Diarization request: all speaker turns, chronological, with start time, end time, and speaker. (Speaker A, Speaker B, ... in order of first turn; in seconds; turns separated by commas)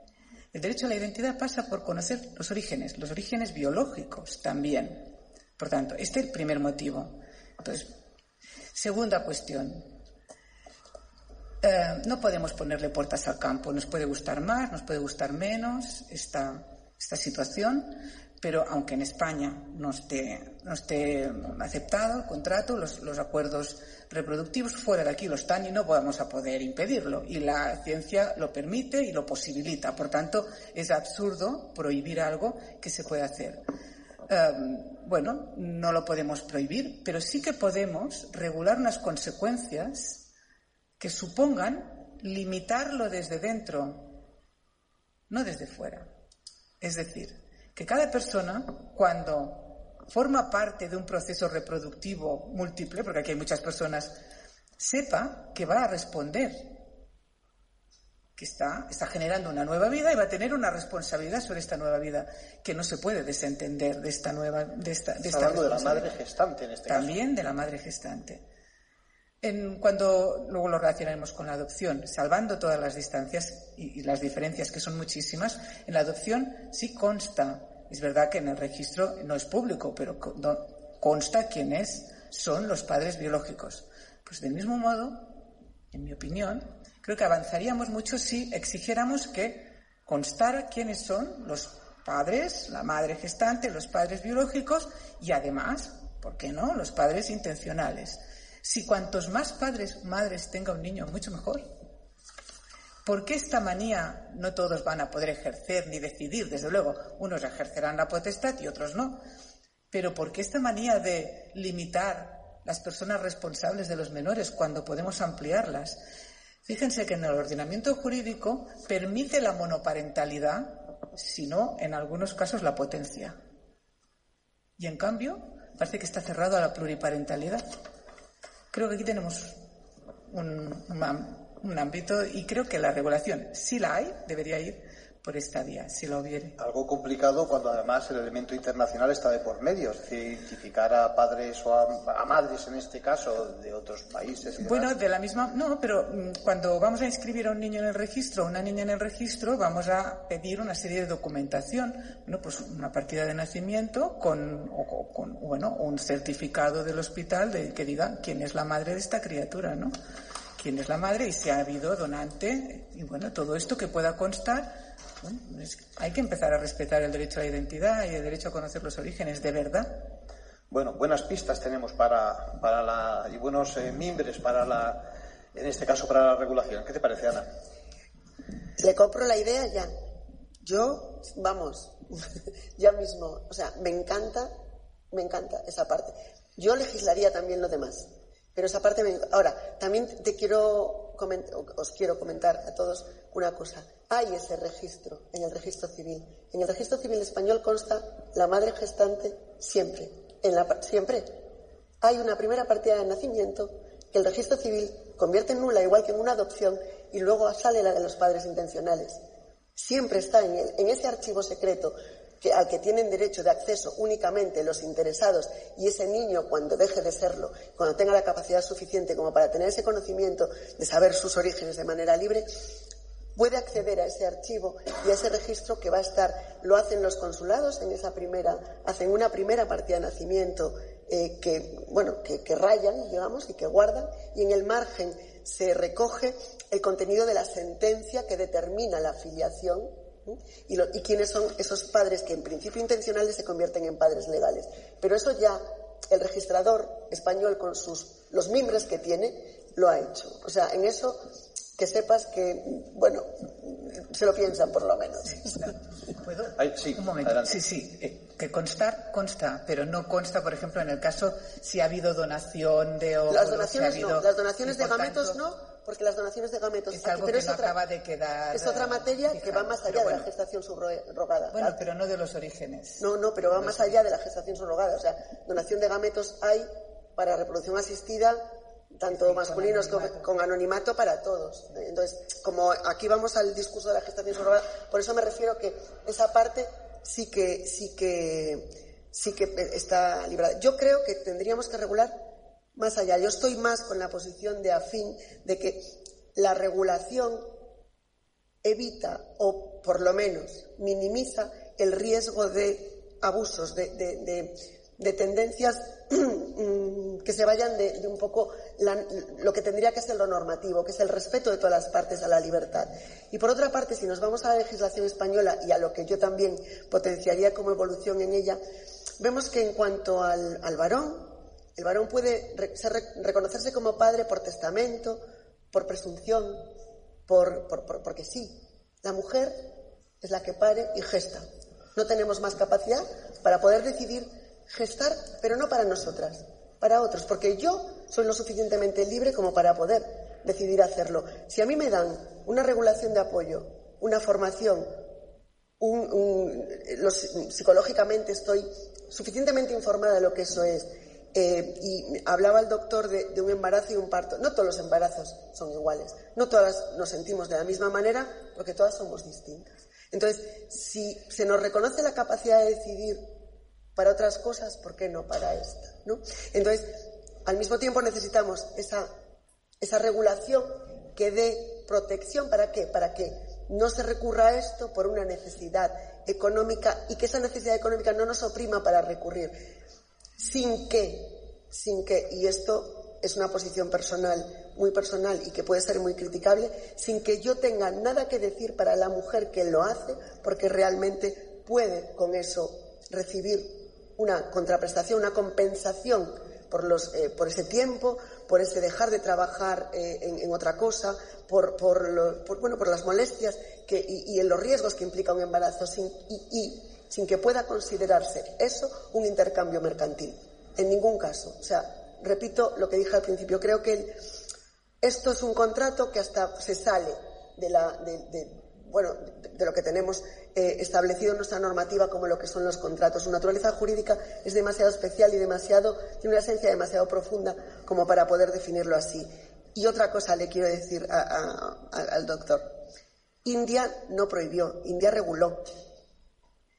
Speaker A: 0.5-7.9, Speaker A: 8.7-9.8, Speaker A: 11.6-33.6, Speaker A: 34.3-40.3, Speaker A: 41.0-44.1, Speaker A: 45.3-46.1, Speaker A: 46.8-54.2, Speaker A: 54.8-56.7, Speaker A: 58.4-66.1, Speaker B: 65.2-67.2, Speaker A: 66.9-68.4, Speaker A: 69.4-85.3, Speaker A: 85.9-101.7, Speaker A: 103.0-109.2, Speaker A: 109.9-116.0, Speaker A: 116.6-123.4, Speaker A: 124.8-127.6, Speaker A: 128.7-129.6, Speaker A: 130.3-136.6, Speaker B: 136.6-144.9, Speaker A: 144.6-159.9, Speaker A: 160.6-170.0, Speaker B: 170.7-177.4, Speaker C: 178.8-179.9, Speaker C: 180.6-181.9, Speaker C: 182.8-184.5, Speaker C: 185.1-201.3, Speaker C: 202.0-209.2, Speaker C: 209.8-222.5, Speaker C: 223.3-251.2, Speaker C: 251.8-255.5, Speaker A: 255.3-265.4, Speaker B: 256.6-257.6, Speaker C: 263.3-267.7, Speaker A: 266.9-270.3, Speaker C: 268.5-271.8, Speaker A: 271.5-274.0, Speaker C: 273.0-278.4, Speaker C: 278.9-292.2, Speaker A: 279.1-280.3, Speaker C: 292.8-297.4, Speaker C: 298.6-318.6, Speaker C: 319.2-325.2, Speaker C: 325.7-326.7, Speaker C: 327.3-329.6, Speaker C: 330.2-331.4, Speaker C: 331.9-344.9, Speaker C: 345.8-363.2, Speaker C: 363.9-369.1, Speaker C: 369.8-379.6, Speaker C: 380.4-414.2, Speaker C: 415.0-432.7, Speaker C: 433.4-435.7